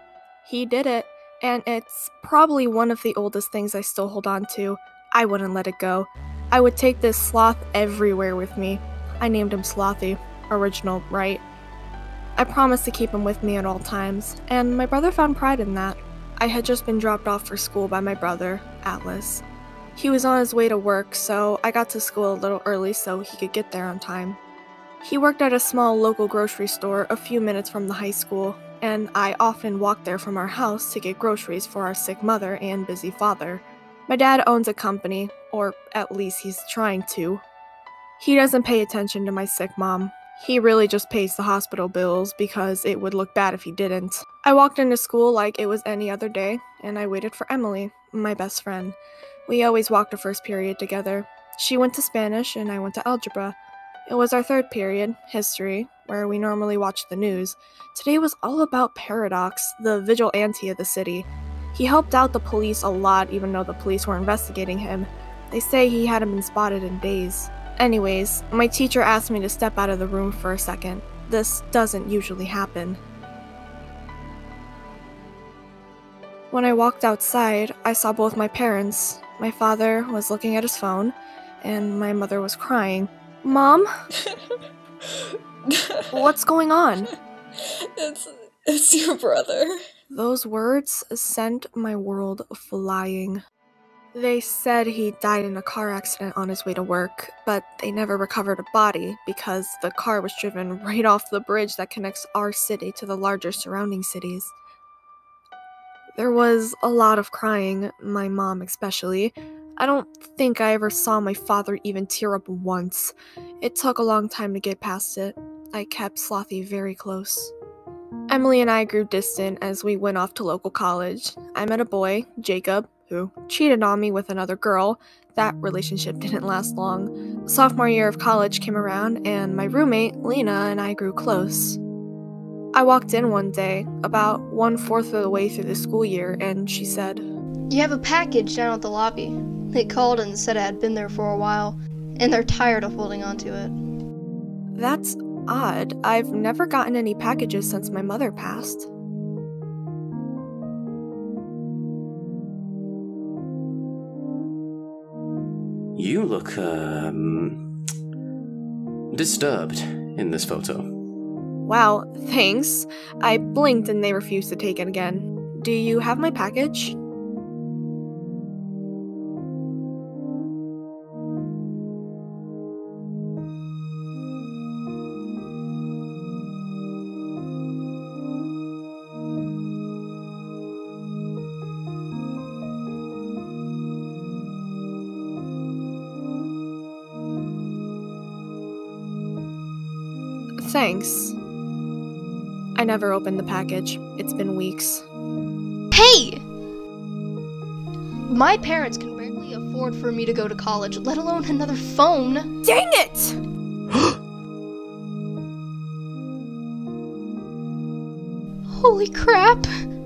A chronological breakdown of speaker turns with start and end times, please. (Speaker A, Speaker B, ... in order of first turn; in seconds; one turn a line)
Speaker A: 0.4-11.4
Speaker A: 12.4-19.4
Speaker A: 19.9-24.4
Speaker A: 25.0-37.4
Speaker A: 38.2-53.5
Speaker A: 54.1-73.0
Speaker A: 76.5-83.9
Speaker B: 85.7-86.3
Speaker A: 86.1-87.1
Speaker B: 87.6-89.7
Speaker A: 90.1-93.4
Speaker A: 94.1-104.5
Speaker A: 106.1-117.5
Speaker A: 118.3-131.8
Speaker A: 132.7-137.2
Speaker C: 137.7-143.7
Speaker A: 144.8-148.9
Speaker D: 155.9-157.6
Speaker D: 159.1-160.9
Speaker A: 161.7-166.9
Speaker A: 190.6-191.3
Speaker A: 192.8-195.0
Speaker C: 195.9-196.4
Speaker C: 198.3-202.5
Speaker A: 202.6-203.4
Speaker C: 208.7-209.7